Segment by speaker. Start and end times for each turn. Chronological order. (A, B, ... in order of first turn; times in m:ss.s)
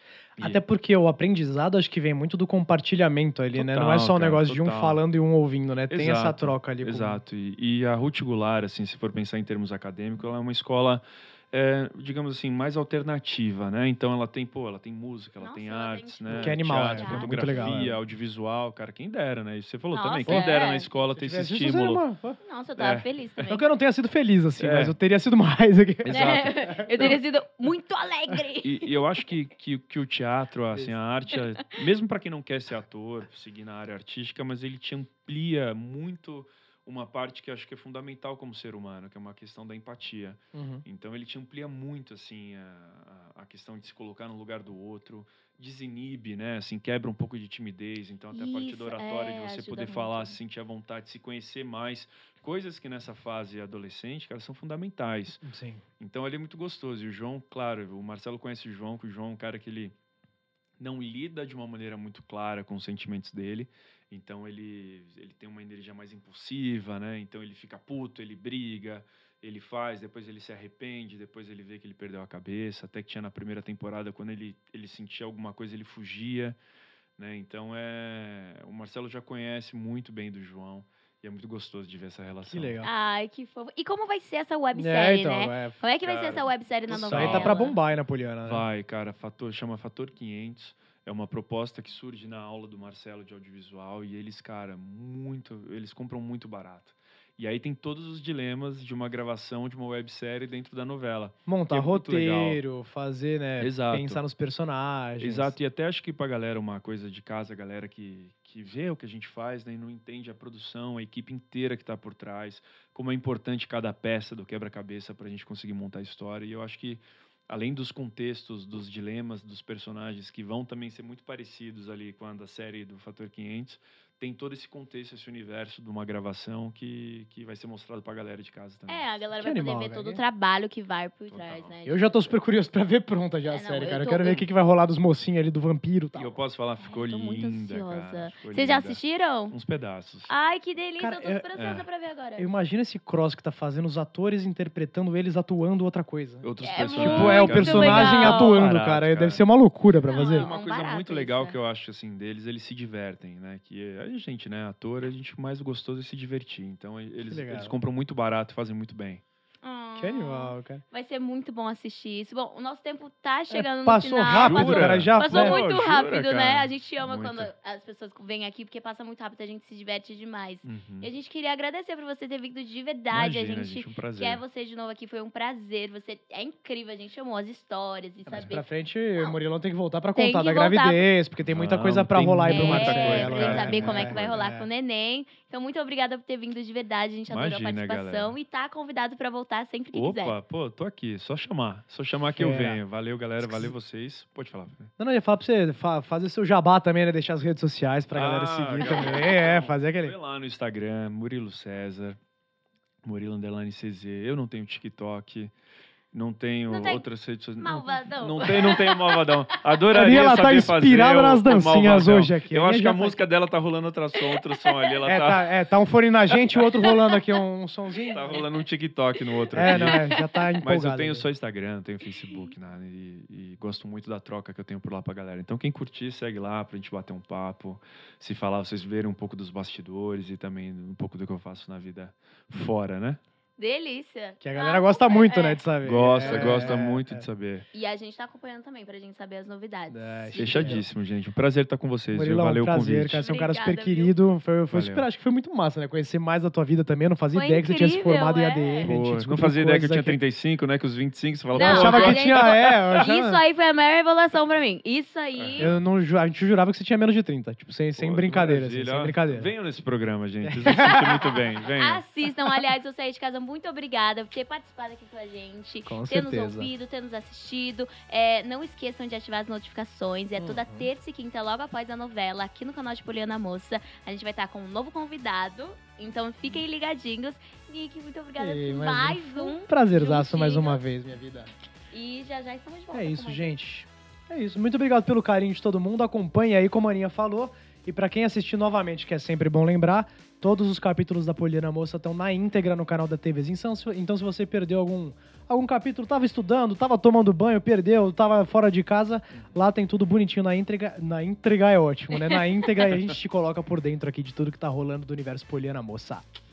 0:00.4-0:07.2 A
0:03.5-0:05.0 B
0:05.9-0:22.0 B
0:15.4-0:18.0 C
0:16.3-0:17.9 A
0:19.9-0:20.9 C
0:20.2-0:22.4 A
0:22.4-0:23.6 C
0:22.8-0:23.0 B
0:23.4-0:27.2 A
0:24.6-0:25.0 B
0:26.0-0:27.1 B
0:26.1-0:28.9 C
0:28.6-0:55.4 B
0:40.5-0:40.8 A
0:48.3-0:50.4 C
0:55.4-0:55.8 A
0:56.0-0:59.9 B
1:00.8-1:16.6 B
1:17.2-1:22.8 B
1:22.4-1:22.9 A
1:22.8-1:27.8 C
1:24.7-1:25.8 A
1:26.0-1:27.7 B
1:27.0-1:28.6 A
1:28.4-1:42.6 B
1:41.4-1:45.6 A
1:43.6-1:44.2 B
1:45.2-2:09.0 B
2:08.9-2:12.3 C
2:09.4-2:10.2 A
2:11.3-2:11.7 B
2:11.8-2:16.4 A
2:13.5-2:14.4 C
2:16.1-2:19.0 B
2:16.8-2:19.5 C
2:19.5-2:20.3 B
2:20.3-2:22.5 C
2:21.0-2:21.4 A
2:21.5-2:21.8 B
2:22.4-2:30.5 A
2:26.4-2:29.4 B
2:26.6-2:28.6 C
2:30.1-2:31.6 C
2:30.2-2:39.2 B
2:37.3-2:37.7 A
2:39.6-2:58.6 C
2:40.0-2:40.8 A
2:43.5-2:45.6 A
2:44.3-2:47.5 B
2:50.6-2:51.1 B
2:53.1-2:54.4 B
2:58.3-2:58.5 B
2:58.4-3:04.7 A
3:00.2-3:01.1 C
3:01.4-3:04.4 B
3:02.5-3:10.4 C
3:07.3-3:08.3 B
3:09.9-3:14.9 B
3:12.3-3:12.8 A
3:13.4-3:13.7 A
3:15.0-3:20.1 A
3:18.1-3:22.2 B
3:18.8-3:19.2 C
3:23.0-3:25.5 B
3:26.1-3:35.5 B
3:26.7-3:27.0 C
3:27.6-3:29.6 C
3:29.9-3:33.2 A
3:34.3-3:34.9 C
3:35.0-3:38.4 A
3:36.8-3:37.2 C
3:38.1-3:53.2 B
3:39.5-3:40.4 C
3:39.5-3:41.3 A
3:53.6-3:55.6 C
3:54.4-3:57.2 A
3:55.8-3:57.6 B
3:56.2-3:56.7 C
3:57.7-4:00.8 C
3:59.9-4:00.8 A
4:00.4-4:03.3 B
4:02.1-4:10.2 A
4:03.2-4:04.2 C
4:04.7-4:05.0 B
4:07.3-4:08.9 C
4:08.8-4:12.5 B
4:11.5-4:13.4 A
4:11.5-4:15.7 C
4:15.4-4:15.8 B
4:15.6-4:19.5 A
4:18.0-4:22.0 B
4:20.4-4:21.1 A
4:21.8-4:40.8 C
4:25.9-4:26.7 A
4:30.4-4:30.9 A
4:38.4-4:41.5 A
4:41.9-4:43.5 C
4:42.9-5:06.2 A
5:02.1-5:02.4 C